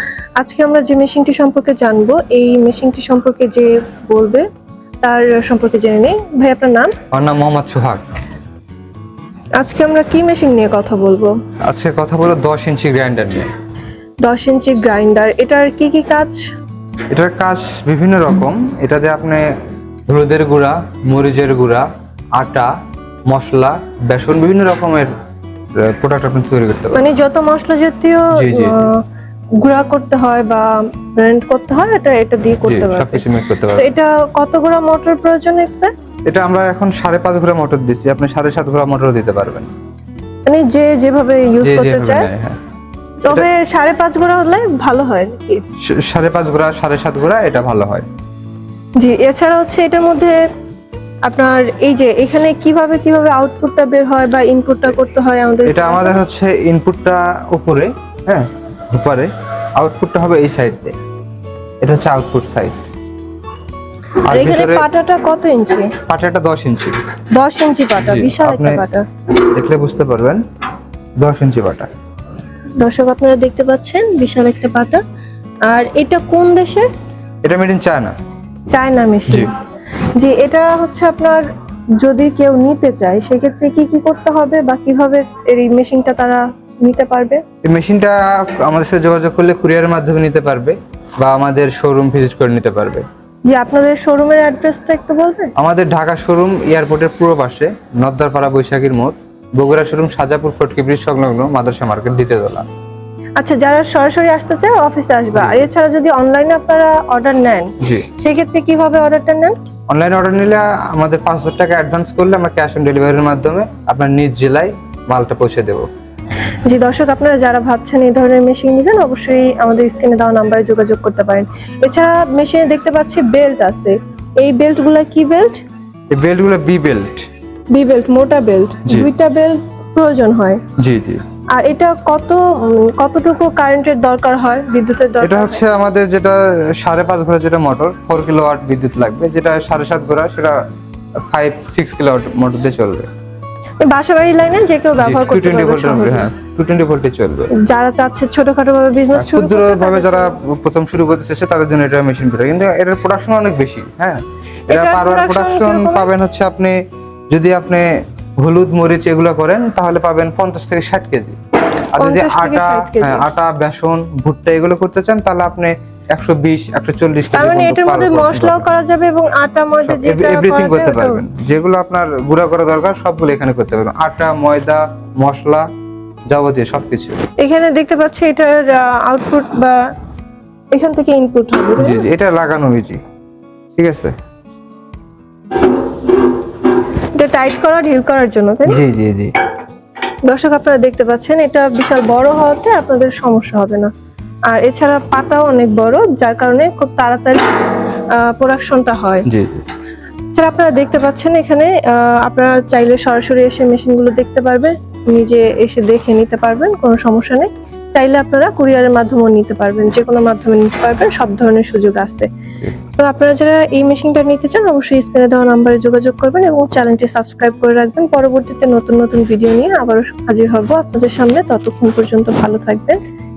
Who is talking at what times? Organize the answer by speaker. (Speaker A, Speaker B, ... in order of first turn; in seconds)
Speaker A: 0.4-4.5, 5.0-7.0, 9.6-11.3, 14.2-16.5, 26.9-29.0, 29.6-33.2, 33.8-35.9, 40.5-42.3, 43.2-45.6, 49.0-50.4, 51.3-56.2, 64.3-65.9, 67.3-69.0, 72.8-75.0, 75.7-76.9, 78.7-79.5, 80.2-81.5, 82.0-87.4, 93.5-95.5, 103.4-109.6, 116.7-125.6, 127.7-130.6, 131.5-135.6, 143.8-146.3, 147.6-150.4, 154.7-156.1, 162.0-163.3, 167.3-171.2, 177.4-179.8, 180.7-182.0, 187.2-188.8, 190.2-193.9, 194.5-197.5, 198.1-199.3, 200.3-212.3, 213.0-223.0
Speaker B: 7.1-8.0, 11.7-13.5, 17.1-19.5, 20.1-22.7, 23.3-25.1, 25.8-27.0, 28.3-28.9, 32.6-33.9, 36.3-39.7, 41.6-42.6, 45.8-48.1, 55.7-61.0, 61.8-62.8, 64.3-64.9, 66.1-67.0, 68.0-68.8, 69.5-70.4, 71.2-71.9, 77.4-78.2, 87.7-93.0, 95.6-102.7, 105.4-105.7, 107.8-108.1, 109.9-115.9, 126.1-127.2, 130.8-131.2, 135.2-140.6, 141.3-143.1, 145.0-147.5, 149.2-156.8, 157.3-157.9, 158.4-161.4, 161.9-168.7, 169.9-175.7, 176.3-177.2, 181.8-183.0, 183.8-184.2, 188.7-189.3, 199.3-199.7